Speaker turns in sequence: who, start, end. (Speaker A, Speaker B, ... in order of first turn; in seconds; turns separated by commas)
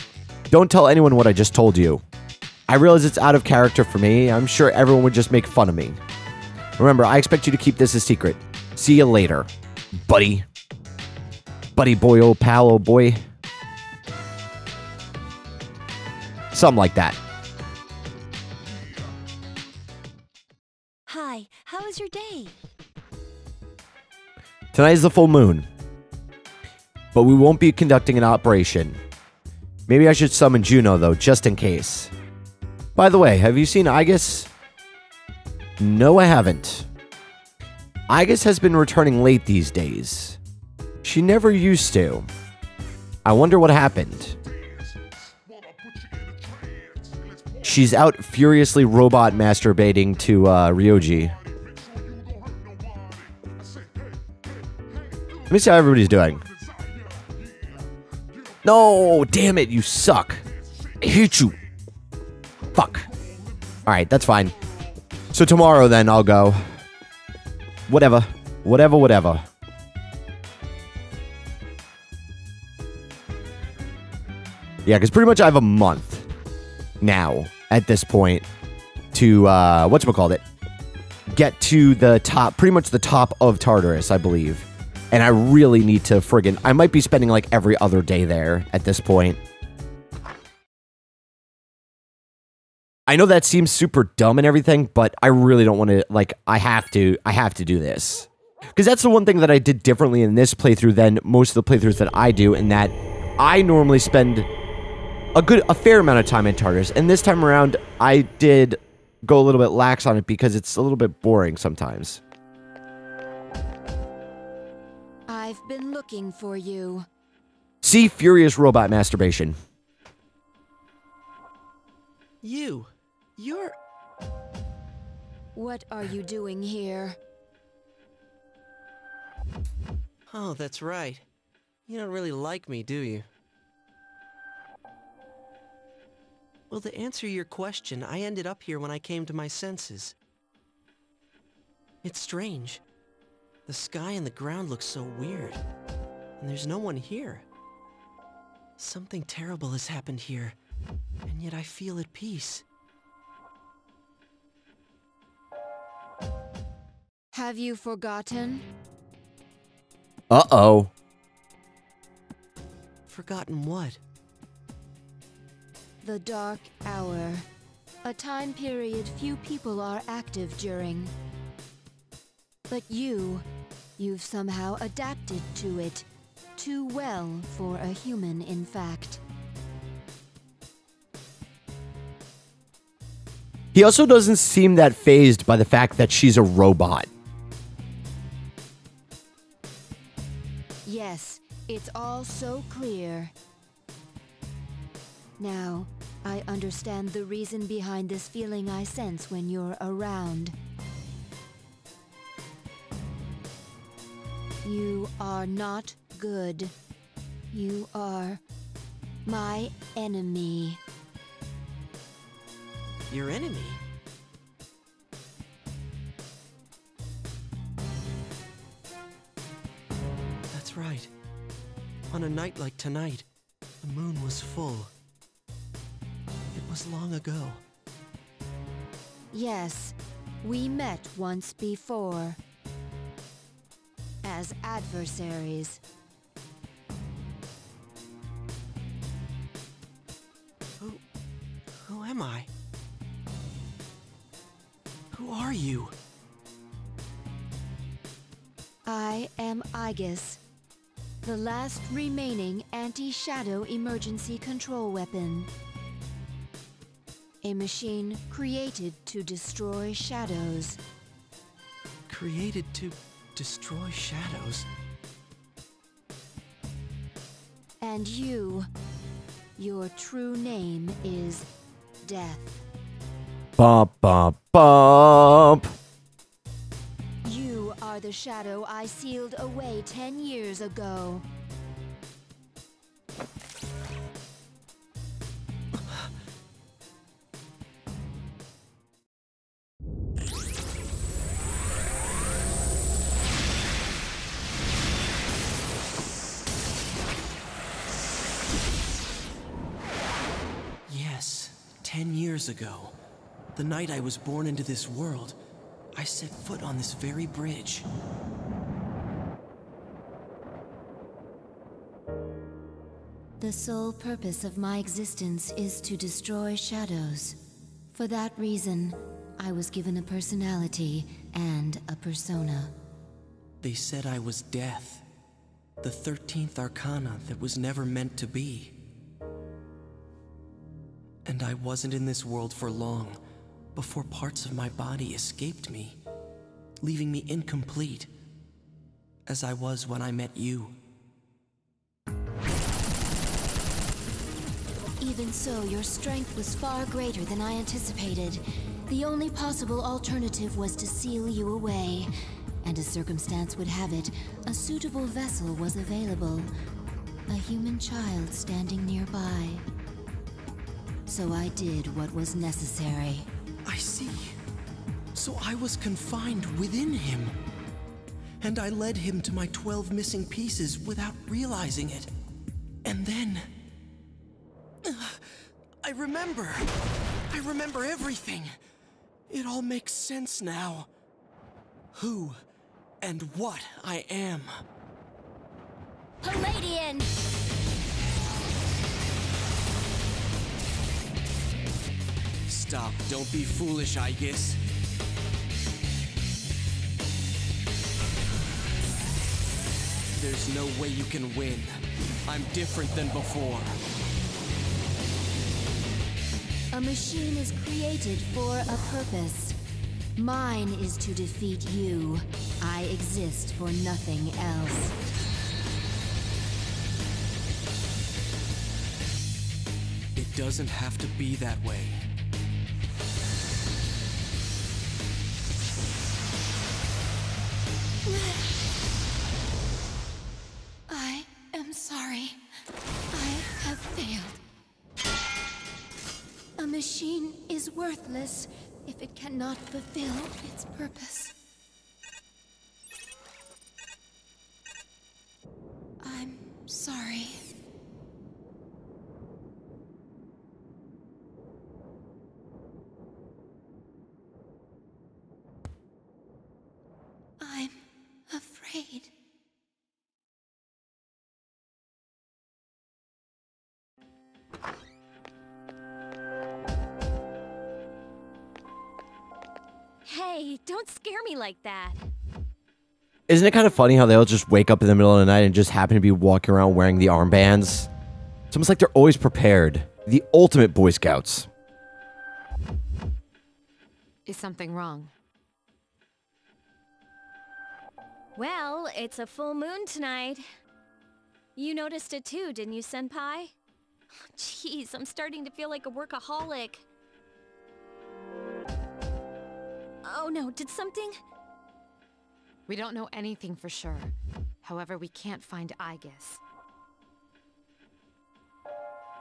Speaker A: 0.5-2.0, Speaker A: 2.7-6.0, Speaker A: 6.8-9.5, Speaker A: 10.1-10.4, Speaker A: 11.8-13.2, Speaker A: 16.5-17.2, Speaker B: 21.1-22.6, Speaker A: 24.7-25.7, Speaker A: 27.1-29.0, Speaker A: 29.9-32.1, Speaker A: 33.0-34.5, Speaker A: 35.8-36.9, Speaker A: 38.1-40.4, Speaker A: 41.0-42.3, Speaker A: 43.2-44.4, Speaker A: 47.6-51.4, Speaker A: 55.5-56.5, Speaker A: 58.6-60.4, Speaker A: 61.0-61.6, Speaker A: 62.7-63.1, Speaker A: 63.9-64.5, Speaker A: 65.3-66.7, Speaker A: 67.9-69.5, Speaker A: 74.9-76.3, Speaker A: 77.0-78.5, Speaker A: 79.1-80.4, Speaker A: 81.3-89.4, Speaker A: 93.1-104.5, Speaker A: 105.3-112.2, Speaker C: 115.3-117.1, Speaker A: 117.8-119.6, Speaker D: 122.4-123.8, Speaker C: 125.5-127.2, Speaker D: 130.3-131.2, Speaker D: 131.9-133.3, Speaker D: 136.7-140.2, Speaker D: 142.0-142.8, Speaker D: 143.7-145.6, Speaker D: 146.4-147.4, Speaker D: 148.8-150.6, Speaker D: 151.3-152.6, Speaker C: 157.3-158.7, Speaker A: 160.3-160.9, Speaker D: 163.1-164.0, Speaker C: 166.0-167.5, Speaker C: 168.0-171.1, Speaker C: 172.7-173.4, Speaker C: 174.0-179.2, Speaker A: 183.7-187.1, Speaker C: 190.8-193.3, Speaker C: 195.4-200.6, Speaker C: 204.6-206.7, Speaker C: 207.5-208.4, Speaker C: 209.3-210.8, Speaker D: 213.1-213.8, Speaker D: 220.5-221.1, Speaker D: 222.1-223.3, Speaker D: 223.8-224.9, Speaker D: 226.5-227.6, Speaker C: 229.3-232.4, Speaker C: 234.2-235.8, Speaker D: 241.8-242.5, Speaker D: 245.1-245.9, Speaker C: 248.9-250.4, Speaker C: 251.2-255.5, Speaker C: 257.4-260.8, Speaker D: 262.1-264.7, Speaker C: 267.8-268.7, Speaker C: 269.6-271.5, Speaker C: 272.0-272.6, Speaker A: 273.6-275.7, Speaker C: 277.2-281.2, Speaker D: 285.8-286.1, Speaker D: 300.9-303.0, Speaker D: 303.6-305.4, Speaker D: 305.9-307.9, Speaker C: 313.4-317.4, Speaker C: 317.9-322.7, Speaker D: 323.6-325.0, Speaker D: 325.8-328.8, Speaker D: 331.3-333.2, Speaker D: 333.8-336.0, Speaker D: 336.8-338.1, Speaker D: 339.3-340.8, Speaker C: 345.0-352.1, Speaker C: 352.6-356.5, Speaker C: 357.3-359.6, Speaker C: 361.1-363.3, Speaker D: 363.6-364.4, Speaker D: 365.1-367.4, Speaker D: 368.4-372.1, Speaker D: 372.8-373.5, Speaker D: 374.8-375.3, Speaker D: 375.8-376.7, Speaker D: 377.3-378.6, Speaker D: 379.3-380.9, Speaker D: 381.9-382.4, Speaker D: 383.0-384.6, Speaker B: 386.2-387.1, Speaker D: 392.5-394.6, Speaker D: 400.2-403.8, Speaker C: 406.7-409.6, Speaker C: 410.2-414.9, Speaker D: 420.1-422.0, Speaker C: 430.9-432.4, Speaker C: 433.1-434.4, Speaker C: 436.6-441.4, Speaker C: 446.0-447.4, Speaker C: 457.4-459.1, Speaker B: 470.1-472.0, Speaker A: 473.3-477.9, Speaker A: 478.5-481.5, Speaker E: 484.3-485.1, Speaker B: 488.4-490.4, Speaker B: 491.6-493.5, Speaker B: 494.3-496.9, Speaker B: 500.0-501.1, Speaker E: 502.7-506.4